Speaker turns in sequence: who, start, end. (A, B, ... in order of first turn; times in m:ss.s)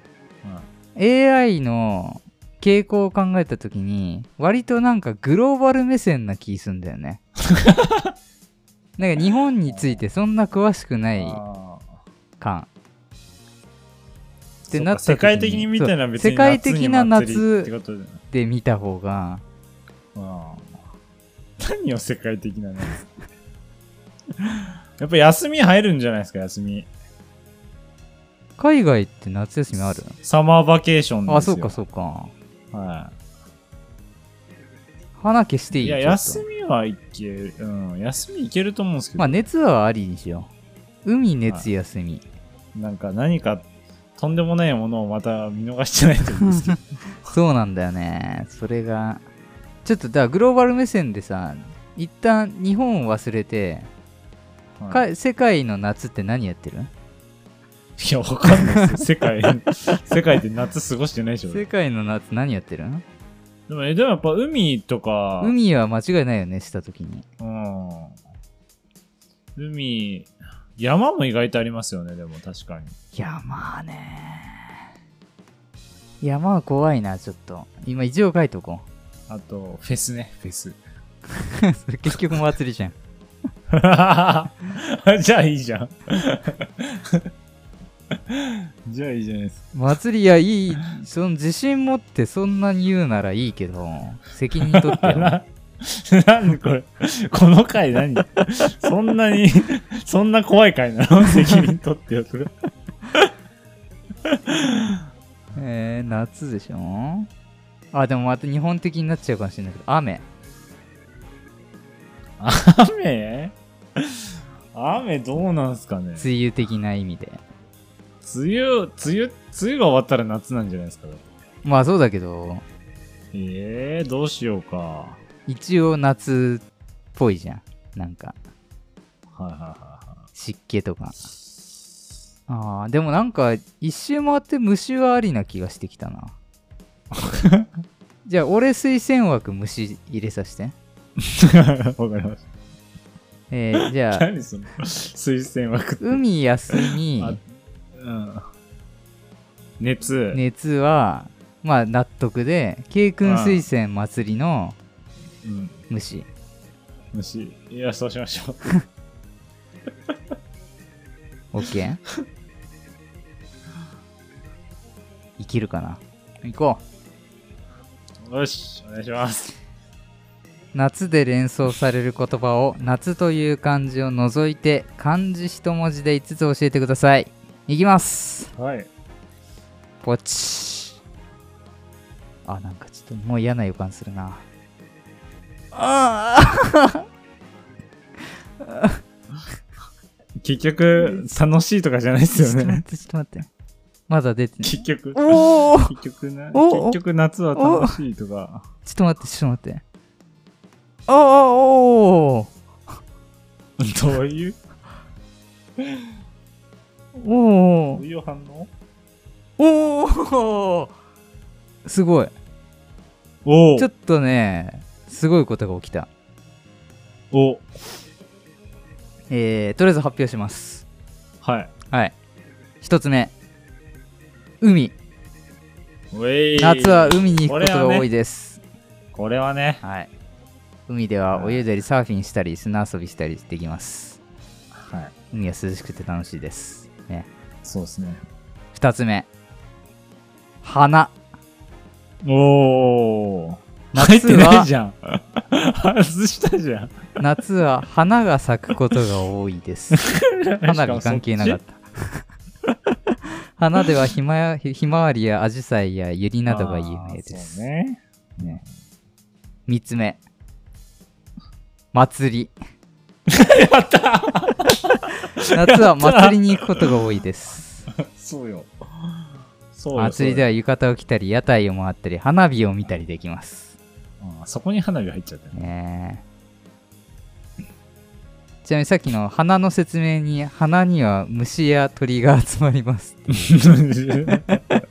0:01.0-0:07.2 A
0:07.5-0:08.1 B
0:09.0-0:11.4 A
0:09.7-0:10.0 B
0:11.2-0:11.9 B
0:12.4-0:12.7 A
0:14.7-0:18.2 B
0:14.7-0:17.7 A
0:18.3-0:19.4 A
0:20.1-0:20.8 B
0:21.6-0:23.0 B
0:25.0-0:26.9 B
0:28.6-0:30.2 A
0:30.2-0:31.8 B
0:31.3-0:32.3 A
0:32.7-0:33.1 B
0:35.2-0:36.4 A
0:35.8-0:39.5 B
0:39.2-0:40.5 A
0:41.0-0:42.2 A
0:42.7-0:46.8 B
0:46.4-0:49.2 A
0:49.8-0:53.9 A
0:54.8-0:55.0 B
0:54.9-0:56.9 A
0:58.0-1:01.7 B
0:58.6-0:59.0 A
1:01.5-1:03.0 A
1:03.7-1:05.5 B
1:05.4-1:07.2 A
1:07.4-1:08.2 B
1:09.6-1:12.9 B
1:13.1-1:14.8 A
1:16.2-1:18.8 A
1:19.3-1:20.8 B
1:21.3-1:22.9 A
1:23.7-1:27.3 B
1:28.1-1:29.7 B
1:29.7-1:35.4 A
1:34.6-1:42.5 B
1:44.2-1:45.0 B
1:45.5-1:47.3 A
1:47.9-1:50.2 A
1:52.4-1:56.3 B
1:56.2-1:57.4 A
1:58.2-2:01.3 B
2:01.6-2:02.6 A
2:03.3-2:05.2 B
2:05.5-2:06.6 A
2:07.2-2:08.3 A
2:09.3-2:10.2 B
2:10.3-2:11.2 A
2:12.5-2:16.3 A
2:17.1-2:17.7 B
2:18.2-2:20.8 A
2:21.2-2:22.4 B
2:23.5-2:24.3 A
2:24.1-2:26.2 B
2:26.0-2:27.4 A
2:26.7-2:27.4 B
2:27.9-2:28.4 B
2:29.8-2:30.4 B
2:30.3-2:34.8 A
2:33.2-2:33.6 B
2:35.4-2:35.8 B
2:35.9-2:36.3 A
2:37.1-2:38.7 B
2:41.5-2:42.0 A
2:45.4-2:46.8 A
2:48.2-2:49.5 B
2:50.7-2:58.5 A
2:58.6-2:58.9 B
3:00.0-3:01.0 A
3:02.4-3:04.4 A
3:05.7-3:07.0 A
3:08.6-3:09.0 A
3:10.4-3:12.8 B
3:11.0-3:11.3 A
3:12.3-3:13.5 A
3:14.1-3:15.9 A
3:14.6-3:18.6 B
3:16.5-3:17.0 A
3:17.6-3:18.0 A
3:18.8-3:19.8 A
3:21.1-3:22.5 A
3:23.8-3:24.6 B
3:25.8-3:26.1 B
3:27.2-3:28.0 A
3:27.9-3:28.7 B
3:29.6-3:30.9 A
3:31.8-3:32.3 A
3:33.4-3:33.9 B
3:33.8-3:36.1 A
3:37.3-3:37.7 B
3:39.3-3:40.8 A
3:41.4-3:41.7 B
3:42.8-3:43.3 A
3:44.6-3:45.0 A
3:46.1-3:48.1 B
3:46.6-3:48.6 A
3:49.1-3:49.8 B
3:49.8-3:50.1 A
3:50.9-3:54.2 A
3:51.3-3:51.6 B
3:54.7-3:55.2 B
3:55.3-3:57.3 A
3:57.6-3:58.2 B
3:58.7-3:59.3 A
4:00.6-4:01.1 A
4:02.2-4:07.1 B
4:03.9-4:04.7 A
4:07.2-4:10.0 A
4:09.9-4:11.6 B
4:10.6-4:12.2 A
4:13.6-4:17.6 A
4:16.5-4:18.6 B
4:19.7-4:20.2 A
4:21.9-4:22.5 A
4:23.3-4:26.9 B
4:25.5-4:27.9 A
4:28.0-4:30.4 B
4:29.9-4:33.7 A
4:34.2-4:35.6 B
4:35.5-4:36.2 A
4:38.6-4:43.5 A
4:43.3-4:44.6 B